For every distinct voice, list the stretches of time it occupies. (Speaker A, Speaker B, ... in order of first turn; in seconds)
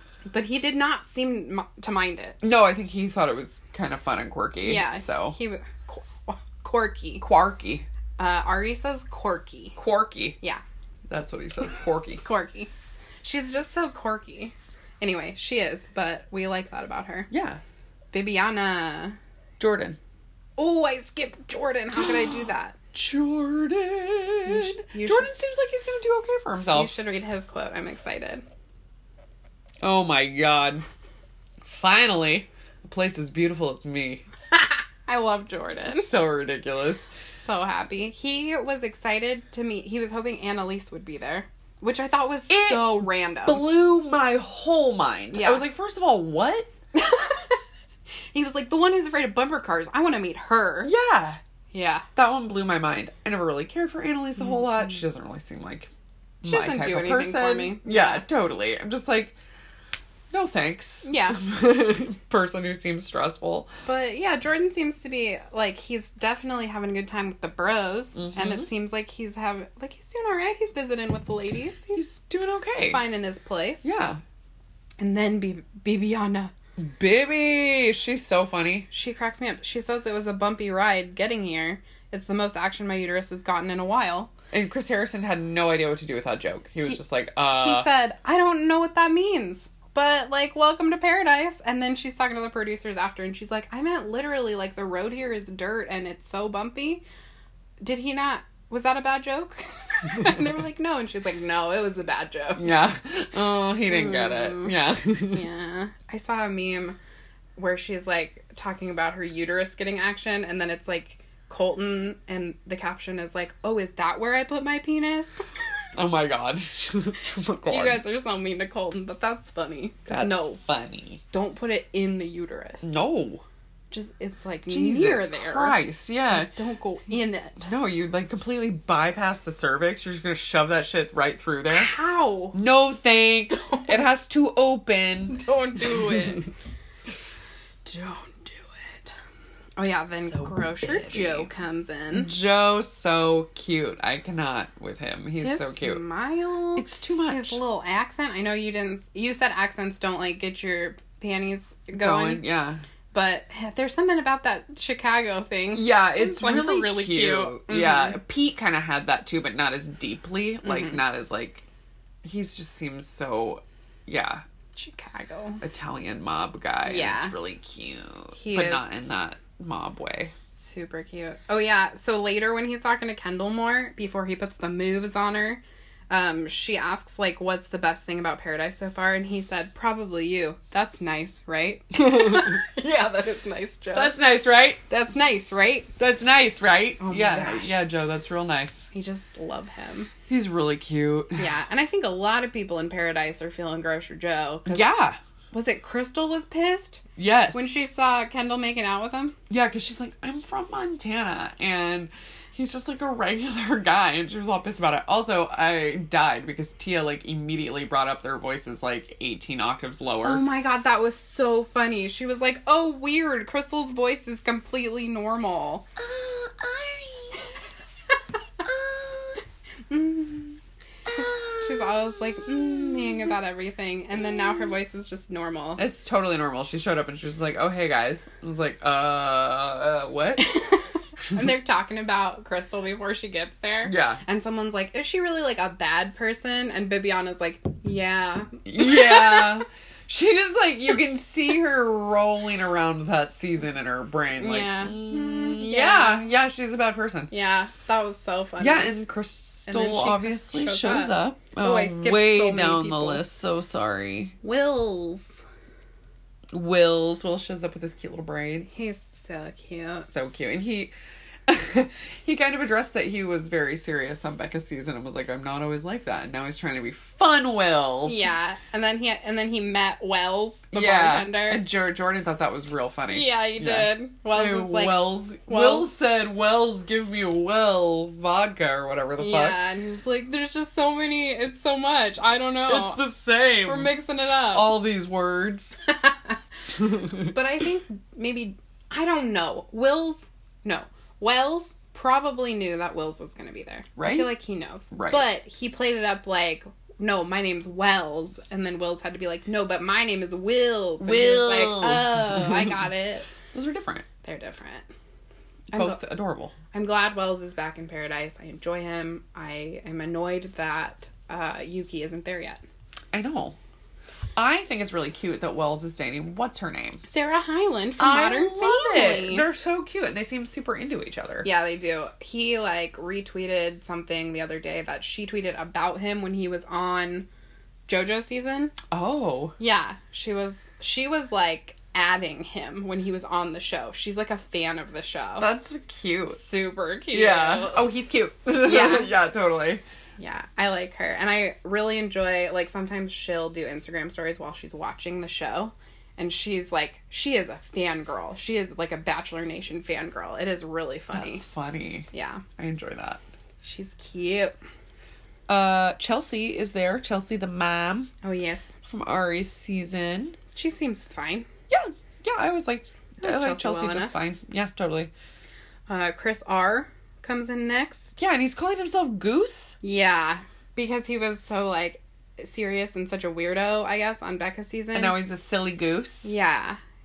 Speaker A: 0.3-2.4, 4.6-7.3, 8.2-9.8, 12.2-12.7, 13.2-17.3, 18.1-19.2, 20.6-22.8, 24.5-25.3, 26.7-28.4, 34.6-36.1, 37.4-43.6, 45.3-45.6, 46.9-47.6, 48.3-50.9, 51.7-52.1, 56.4-58.2, 61.0-61.4, 63.9-72.1, 72.8-73.9, 75.0-76.5, 78.9-84.3, 87.5-97.0, 97.8-102.7, 103.9-104.7, 105.3-107.0, 107.6-115.4, 117.7-120.6, 121.3-122.9, 123.9-125.8, 126.3-127.7, 131.7-132.6, 133.6-133.9, 135.3-136.5, 137.9-139.1, 139.8-142.3, 145.4-152.4, 153.1-158.2, 160.6-161.0, 164.8-165.6, 166.8-167.3, 168.4-168.9, 170.5-184.2, 184.9-185.9, 187.0-187.8, 188.9-190.1, 191.4-194.9, 195.5-199.4, 210.2-215.9, 219.9-220.6, 221.2-225.8, 230.4-239.6, 244.4-246.3, 247.3-249.0, 249.7-253.2, 254.4-255.4, 258.7-260.1, 268.1-271.6, 273.1-275.9, 279.2-283.1, 283.6-284.8, 286.0-286.4, 287.1-303.3, 304.2-304.9, 305.7-306.0, 306.7-312.6, 317.1-319.5, 321.4-327.3, 327.9-328.8, 329.6-335.5, 336.3-337.9, 338.6-339.1, 340.2-351.4, 352.1-352.4, 353.6-354.6, 358.2-358.7, 360.6-361.5, 363.2-364.1, 365.9-368.2, 369.8-375.2, 376.2-376.8
Speaker B: 2.4-5.4, 7.2-7.9, 9.8-10.4, 11.1-12.2, 17.3-17.6, 19.6-20.0, 22.0-26.9, 29.8-30.9, 31.6-34.2, 35.9-37.1, 42.5-46.7, 50.8-51.4, 52.2-55.9, 56.4-59.4, 60.3-63.7, 68.2-68.7, 72.0-73.0, 73.8-74.2, 76.8-78.9, 84.5-87.9, 102.6-105.5, 116.0-118.0, 120.1-121.2, 122.8-123.4, 124.7-126.5, 127.6-131.9, 132.5-135.4, 140.3-141.5, 142.1-146.0, 146.8-147.6, 151.9-152.8, 155.7-161.7, 162.2-164.4, 165.6-170.3, 182.1-182.6, 183.9-184.8, 186.0-188.9, 190.3-191.4, 194.7-195.2, 197.2-197.8, 199.5-210.4, 216.0-217.5, 218.6-219.4, 221.1-223.3, 224.2-224.7, 225.8-230.5, 233.8-234.2, 238.7-247.3, 248.6-254.4, 256.5-258.8, 260.0-260.9, 261.5-268.3, 270.7-279.6, 282.7-283.9, 284.5-285.8, 294.0-294.3, 294.9-295.2, 301.0-302.8, 303.5-304.1, 305.7-306.6, 313.1-313.6, 314.4-317.0, 318.0-321.5, 328.9-329.6, 335.4-336.4, 337.1-339.8, 351.1-353.2, 355.5-358.1, 358.8-360.4, 361.7-365.1, 368.2-369.8, 374.9-376.3